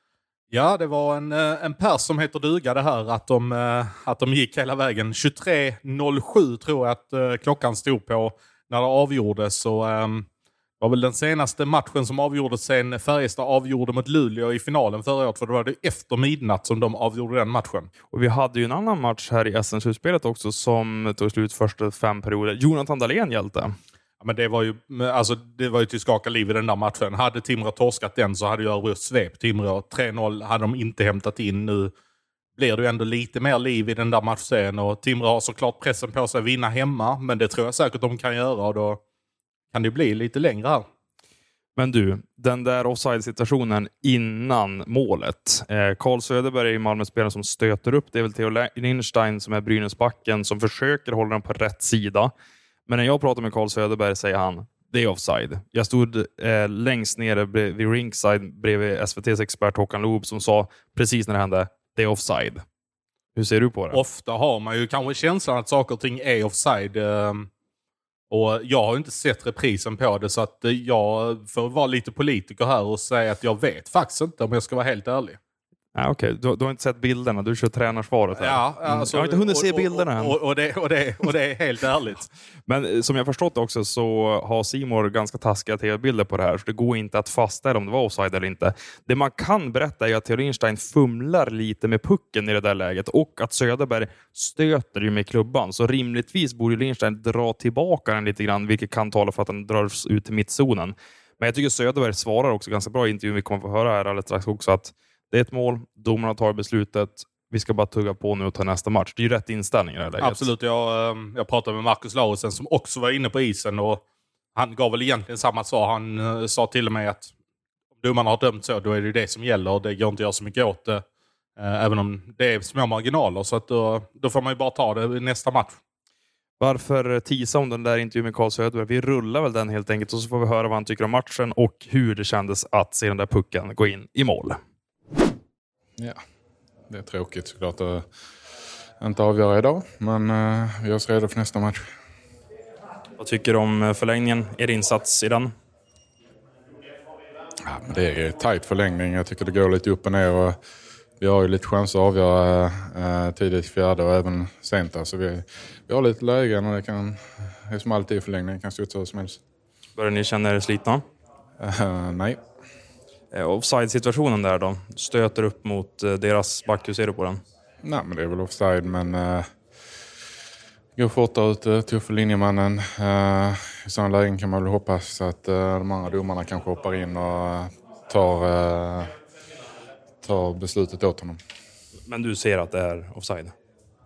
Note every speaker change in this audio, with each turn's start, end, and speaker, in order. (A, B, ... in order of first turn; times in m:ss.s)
0:00.5-0:10.3 A
0:10.8-0:17.9 A
0:18.1-0:23.8 B
0:24.2-0:31.9 A
0:32.6-0:39.0 A
0:39.7-0:40.8 A
0:41.8-0:52.3 B
0:52.9-1:02.6 B
1:03.4-1:04.0 B
1:03.9-1:07.5 A
1:08.3-1:15.4 A
1:15.9-1:20.3 B
1:18.4-1:22.3 A
1:22.7-1:50.5 B
1:50.2-1:54.0 A
1:54.6-1:57.3 A
1:58.0-2:01.0 A
2:01.6-2:05.8 A
2:06.6-2:14.6 B
2:16.9-2:18.1 C
2:19.0-2:21.9 C
2:23.2-2:25.5 B
2:27.6-2:30.6 C
2:31.2-2:39.4 C
2:40.0-2:41.0 B
2:41.6-2:42.4 C
2:43.3-2:47.4 B
2:47.8-2:49.5 C
2:51.0-2:59.1 C
3:00.2-3:01.4 C
3:02.1-3:03.5 B